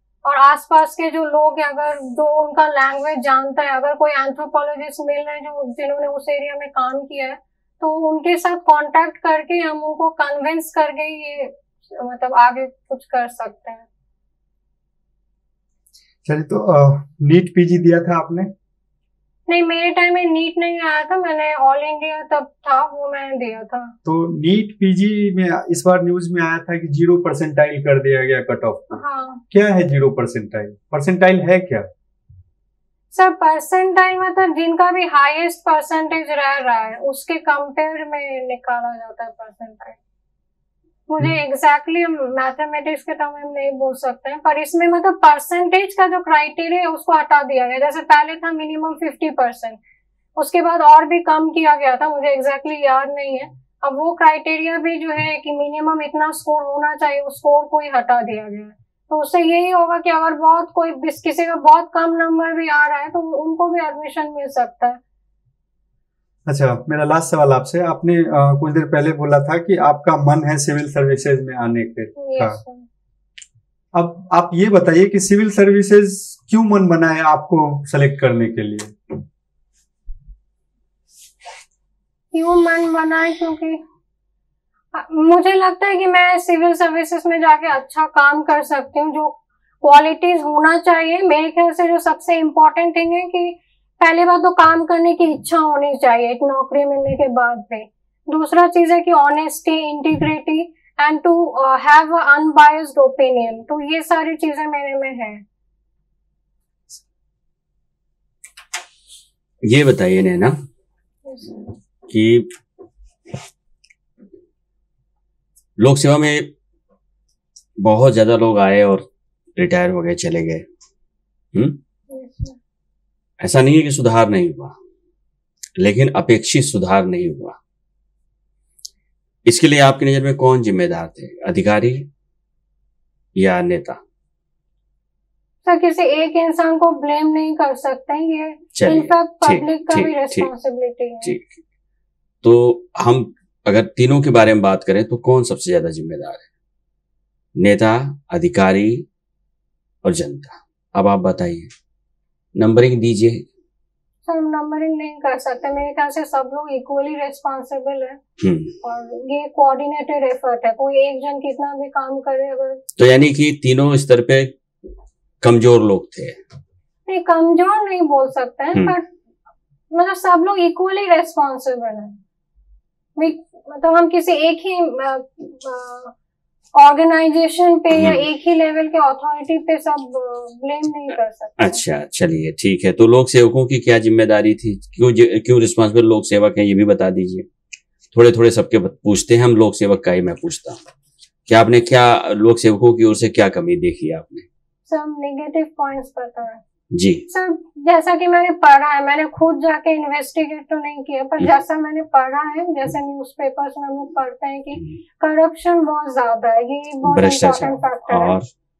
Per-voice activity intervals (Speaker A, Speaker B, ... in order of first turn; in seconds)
Speaker A: 0.2-13.9, 19.5-23.9, 29.0-29.4, 33.1-40.0, 41.1-49.8, 50.4-65.0, 72.2-72.9, 82.3-83.8, 84.9-105.4, 111.2-111.7, 122.1-122.6, 135.7-141.3, 154.3-158.2, 158.8-162.8, 167.1-169.1, 169.9-172.2, 173.2-176.1, 176.8-181.8, 194.9-196.6, 197.3-208.4
Speaker B: 16.2-18.5, 24.1-31.9, 66.5-72.6, 73.9-79.2
Speaker C: 109.6-110.6, 112.1-112.5, 115.8-116.5, 117.8-119.0, 119.6-120.6, 123.4-124.8, 125.8-127.6, 129.4-132.1, 133.4-134.0, 138.8-140.5, 141.2-141.5, 142.4-146.5, 147.6-149.1, 150.0-151.7, 152.6-153.4, 158.4-158.8, 163.0-164.6, 165.4-166.4, 177.9-178.2, 181.6-187.5, 188.1-190.8, 191.5-194.5, 196.9-197.3, 207.0-208.5